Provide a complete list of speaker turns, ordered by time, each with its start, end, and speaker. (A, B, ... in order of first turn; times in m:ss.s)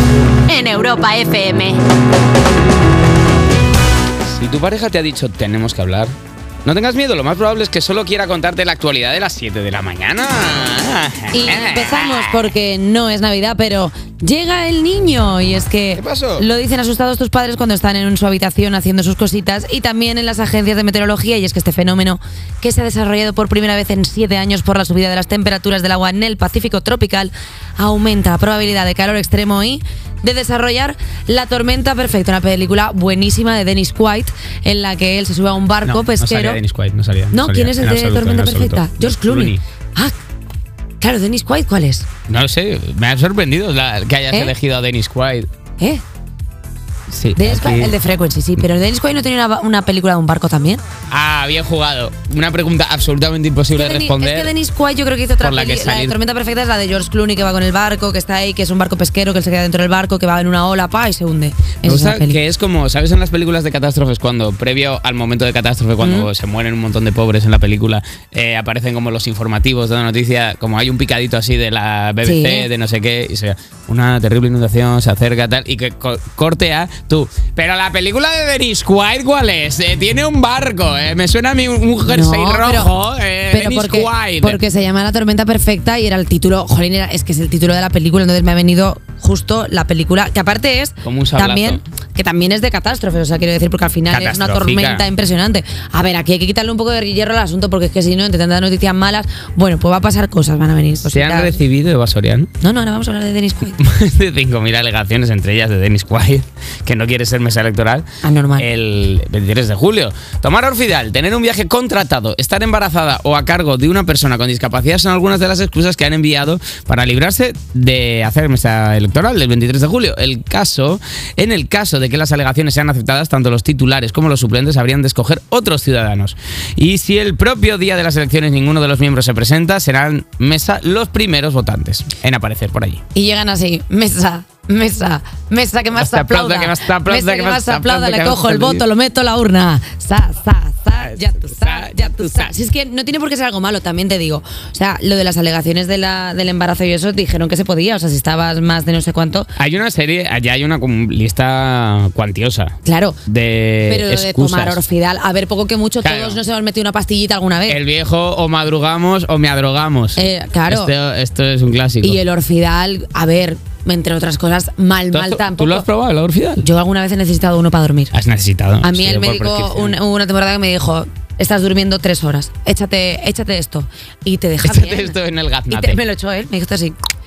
0:00.5-0:01.8 A
0:04.2-0:06.1 B
0:06.6-0:12.5 B
0:11.3-0:36.6 A
0:16.0-0:16.5 B
0:35.8-0:39.6 B
0:37.3-0:40.2 A
0:41.0-0:42.1 A
0:42.3-0:45.5 B
0:47.1-0:48.0 B
0:47.4-0:50.8 A
0:51.1-0:54.5 B
0:53.7-1:02.4 A
0:55.4-0:56.2 B
1:01.8-1:24.6 B
1:06.0-1:06.3 A
1:12.2-1:12.7 A
1:22.1-1:22.9 A
1:23.5-1:41.6 A
1:31.0-1:31.8 B
1:34.1-1:35.1 B
1:41.1-1:42.5 B
1:42.6-1:43.8 A
1:43.7-1:48.0 B
1:48.2-1:48.7 A
1:48.6-2:13.0 B
2:13.1-2:29.5 A
2:15.9-2:18.8 B
2:21.0-2:22.5 B
2:29.6-2:32.8 B
2:32.8-2:33.2 A
2:33.3-2:34.8 B
2:33.9-2:37.8 A
2:36.0-2:36.4 B
2:37.7-2:42.2 B
2:40.2-2:40.9 A
2:42.0-2:45.9 A
2:45.1-2:46.7 B
2:46.6-2:48.1 A
2:48.1-2:50.0 B
2:48.8-2:55.2 A
2:54.6-2:56.0 B
2:55.7-2:57.0 A